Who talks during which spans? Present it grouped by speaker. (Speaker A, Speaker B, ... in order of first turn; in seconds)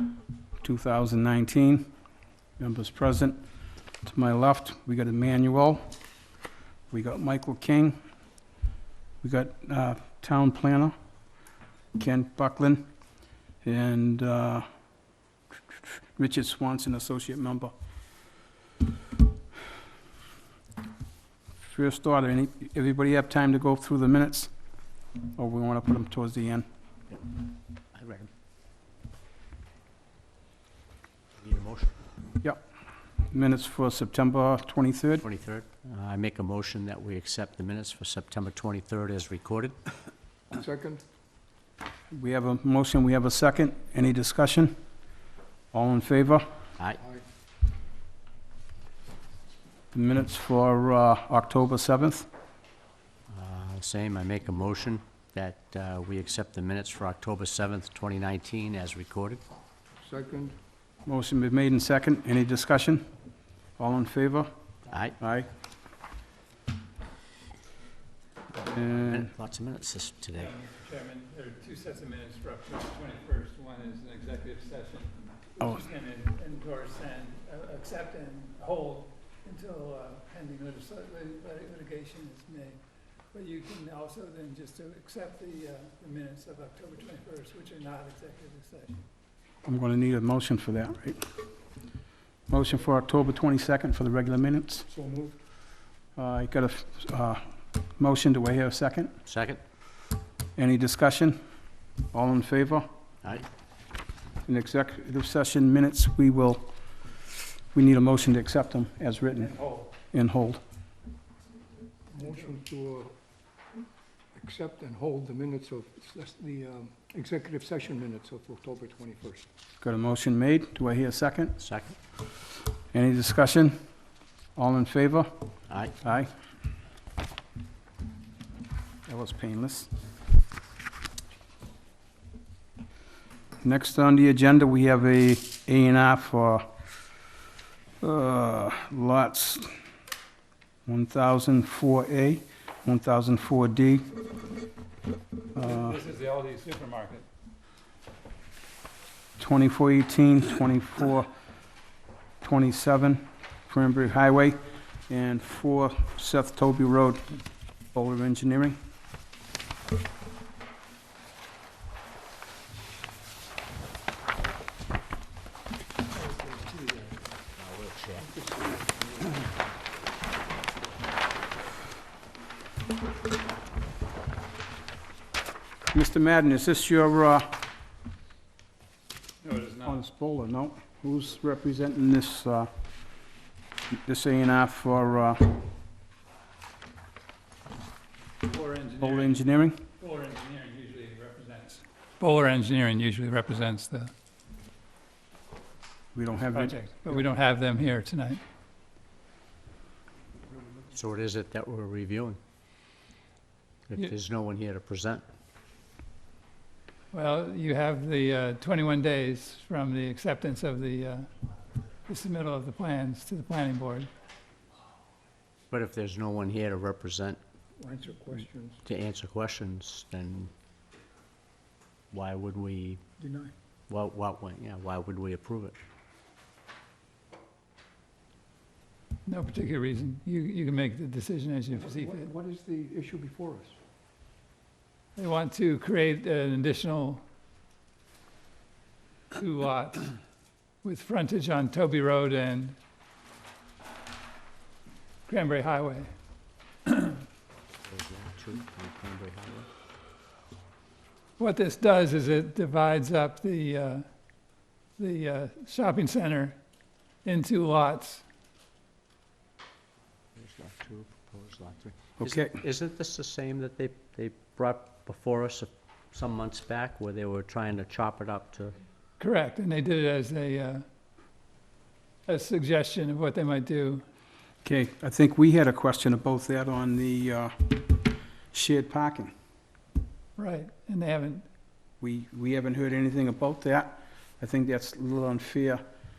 Speaker A: 0.6-1.9, 2.6-3.4, 4.0-5.9, 6.9-8.0, 9.2-10.9, 11.9-12.9, 13.6-14.7, 15.9-17.7, 21.6-24.5, 25.4-26.6, 33.3-35.2, 42.1-44.7, 45.7-46.5, 49.9-52.3, 61.0-63.1, 63.8-64.5, 65.2-65.5, 68.6-69.3, 89.6-91.2, 92.5-94.9, 96.2-97.5, 98.0-99.1, 100.5-101.4, 102.1-102.9, 104.5-106.7, 107.7-110.6, 119.8-121.6, 122.9-123.8, 124.5-125.3, 126.0-126.3, 129.1-129.9, 133.6-136.7, 138.0-139.7, 140.8-144.1, 145.5-146.0, 149.4-151.3, 152.4-157.3, 157.9-158.8, 175.8-177.6, 179.8-182.7, 183.9-185.6, 189.0-189.8, 196.1-196.8, 262.2-262.6, 274.6-277.8, 278.5-279.3, 282.0-285.8
Speaker B: 27.9-28.3, 31.4-32.0, 35.2-39.7, 53.3-59.4, 64.9-65.2, 68.9-70.5, 99.2-99.6, 121.6-121.9, 125.7-126.0, 167.5-168.3, 200.9-202.4, 203.9-205.2, 215.7-217.4, 218.8-220.5, 222.1-223.0, 223.9-225.8, 247.8-249.7, 260.4-268.8
Speaker C: 40.5-41.0, 60.0-60.6, 94.9-95.4, 112.1-113.1, 114.3-119.5, 166.2-167.2, 168.2-169.5, 217.8-218.8, 223.2-223.5, 231.7-233.8
Speaker D: 70.3-82.8, 83.3-89.0, 109.5-109.8, 145.5-147.3, 179.4-180.0, 188.4-189.4, 190.0-194.1, 196.5-198.4, 207.1-211.3, 212.1-214.1, 229.2-232.3, 235.2-237.2, 239.3-240.1, 240.8-242.8, 245.3-246.1, 246.8-247.2, 251.4-254.1, 255.0-256.6, 257.2-258.2, 269.2-270.8, 272.2-274.0, 280.4-281.4